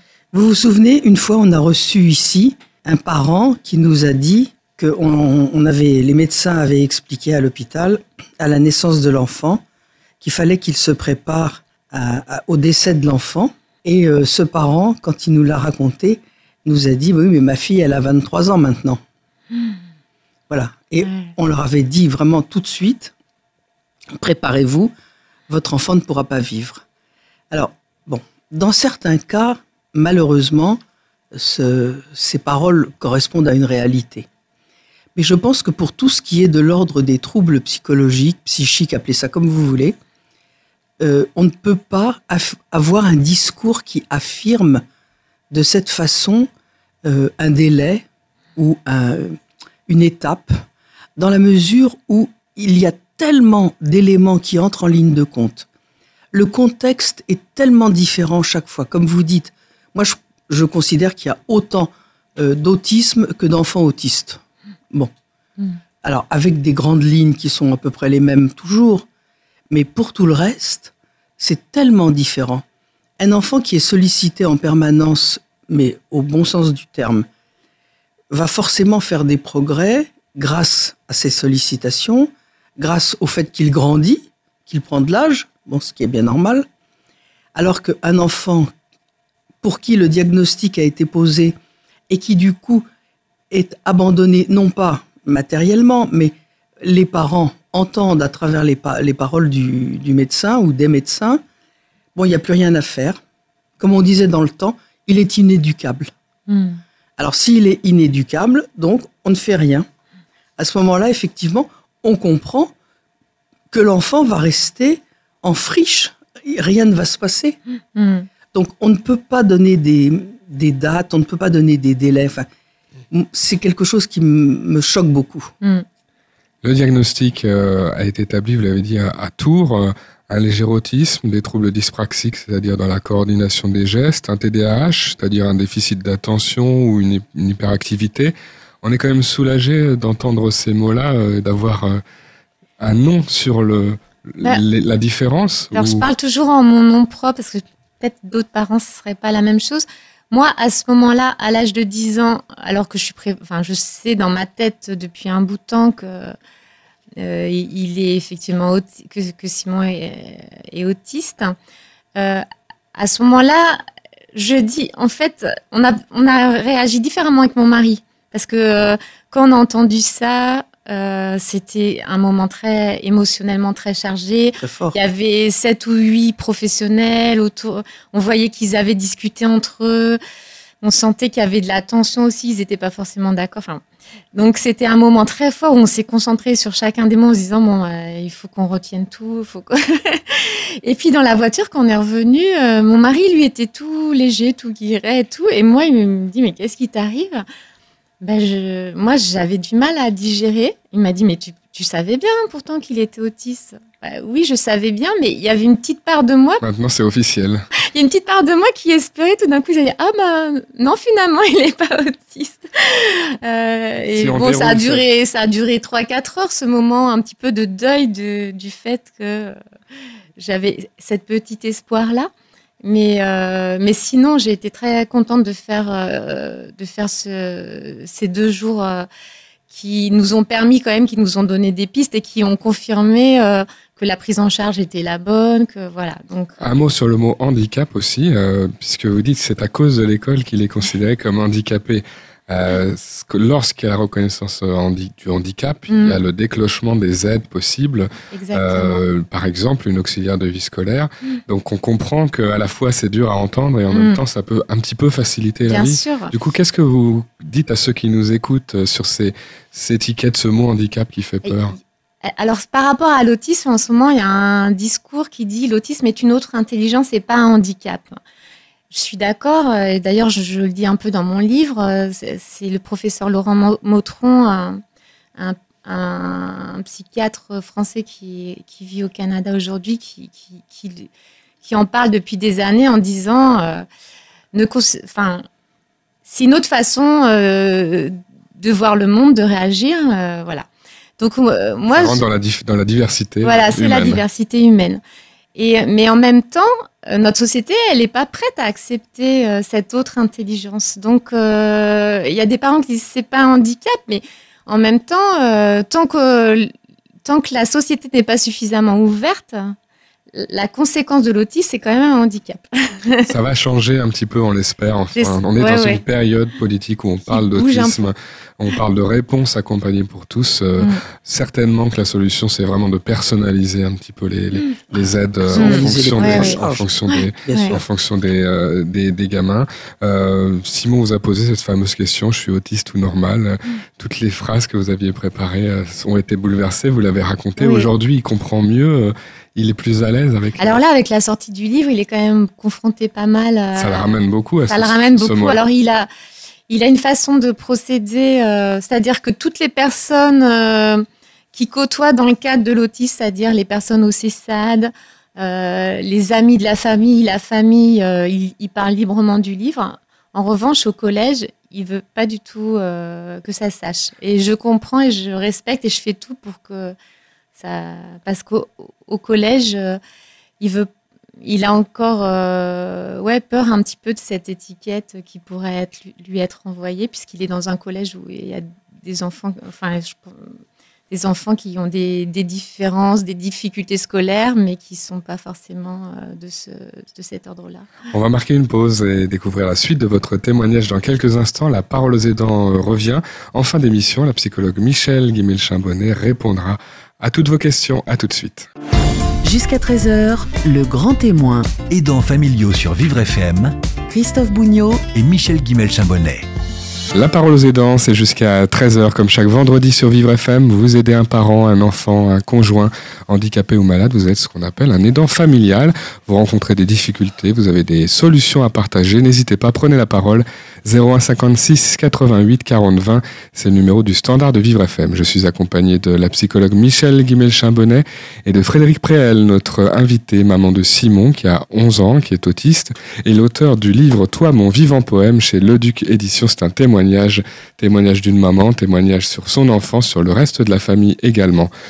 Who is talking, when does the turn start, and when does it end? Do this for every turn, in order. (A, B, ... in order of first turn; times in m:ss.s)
0:00.3-0:09.6 A
0:10.2-0:19.0 A
0:20.5-0:23.1 A
0:21.0-0:21.3 B
0:24.2-0:24.9 A
0:25.5-0:26.8 A
0:27.5-0:30.8 A
0:31.3-0:34.3 A
0:35.2-0:40.0 A
0:41.0-0:44.8 A
0:45.5-0:46.5 A
0:47.0-0:50.6 A
0:51.2-0:55.7 A
0:56.3-1:05.1 A
1:06.0-1:09.1 A
1:09.7-1:12.6 A
1:13.2-1:17.3 A
1:18.3-1:26.7 A
1:27.6-1:28.7 A
1:29.6-1:31.6 A
1:32.1-1:32.9 A
1:33.5-1:41.4 A
1:42.2-1:43.2 A
1:43.8-1:46.1 A
1:46.5-1:46.8 B
1:47.2-1:49.9 A
1:50.6-1:52.7 A
1:53.7-1:57.6 A
1:58.0-1:58.3 B
1:58.5-2:02.5 A
2:03.1-2:05.5 A
2:06.6-2:22.0 C
2:22.8-2:26.1 C
2:25.7-2:36.4 B
2:37.2-2:41.6 B
2:42.2-2:43.8 B
2:44.4-3:00.2 B
2:54.6-2:55.0 A
3:00.8-3:03.8 B
3:04.4-3:17.4 B
3:18.2-3:26.6 B
3:26.6-3:27.7 C
3:27.9-3:39.6 B
3:34.2-3:35.0 C
3:40.4-3:42.3 B
3:42.8-3:49.1 B
3:49.7-3:56.5 B
3:56.6-4:21.8 C
4:05.9-4:06.2 B
4:08.3-4:09.0 B
4:13.9-4:14.2 B
4:15.7-4:16.3 B
4:21.4-4:28.2 B
4:28.9-4:34.8 B
4:35.4-4:41.1 B
4:41.6-4:43.8 B
4:44.5-4:45.5 B
4:46.2-4:50.7 B
4:51.2-4:52.2 B
4:51.9-4:54.2 C
4:53.4-4:55.0 B
4:55.6-5:06.7 B
5:07.2-5:09.8 B
5:10.3-5:13.3 B
5:13.3-5:40.8 C
5:15.2-5:16.0 B
5:17.3-5:18.0 B
5:24.9-5:26.9 A
5:25.6-5:26.6 B
5:27.1-5:27.8 B
5:27.4-5:27.8 A
5:37.6-5:37.9 B
5:40.6-5:46.1 B
5:43.8-5:45.6 C
5:46.7-6:07.0 B
6:07.6-6:10.0 B
6:10.6-6:10.9 B
6:11.4-6:20.5 B
6:21.1-6:27.9 B
6:28.1-6:38.7 C
6:39.4-6:41.8 D
6:41.9-6:43.8 E
6:44.1-6:45.1 D
6:45.1-6:46.5 E
6:47.1-7:21.7 C